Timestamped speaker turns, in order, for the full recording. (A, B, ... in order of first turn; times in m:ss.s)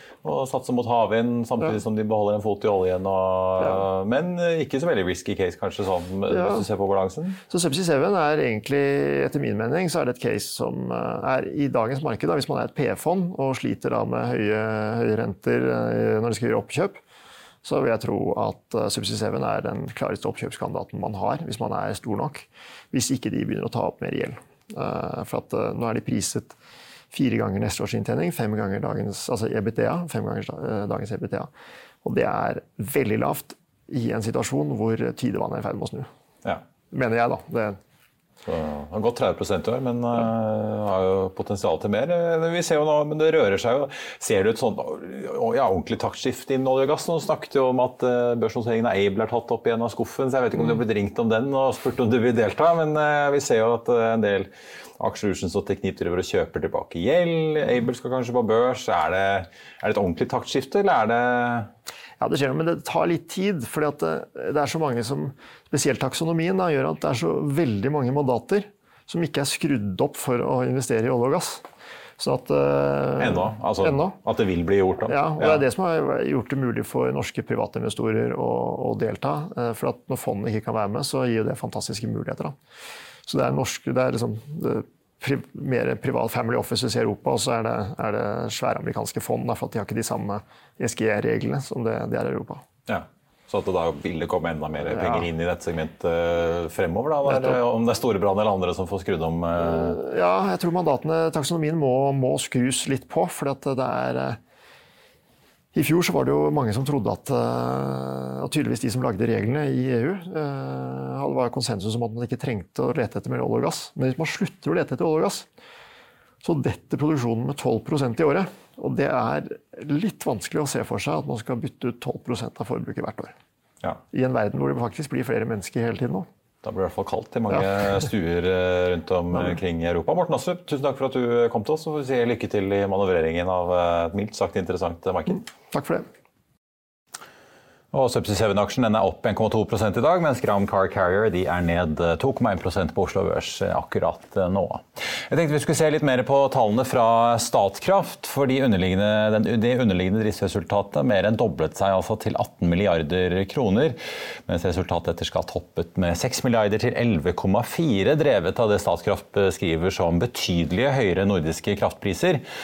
0:00.2-0:07.4 A
0:06.3-0:06.6 B
0:07.5-0:17.0 B
0:17.6-0:26.6 B
0:27.1-0:31.5 B
0:32.0-0:36.1 B
0:36.9-0:37.8 B
0:38.4-1:01.7 A
1:02.2-1:11.6 B
1:12.2-1:14.2 B
1:13.2-1:15.6 A
1:15.1-1:22.5 B
1:23.2-1:32.6 B
1:32.9-1:40.0 A
1:34.9-1:35.3 B
1:37.2-1:37.6 B
1:39.6-1:44.4 B
1:45.7-1:55.4 B
1:56.4-2:03.3 B
2:04.1-2:06.2 B
2:06.6-2:15.4 A
2:09.3-2:09.6 B
2:15.7-2:16.0 B
2:17.9-2:42.4 A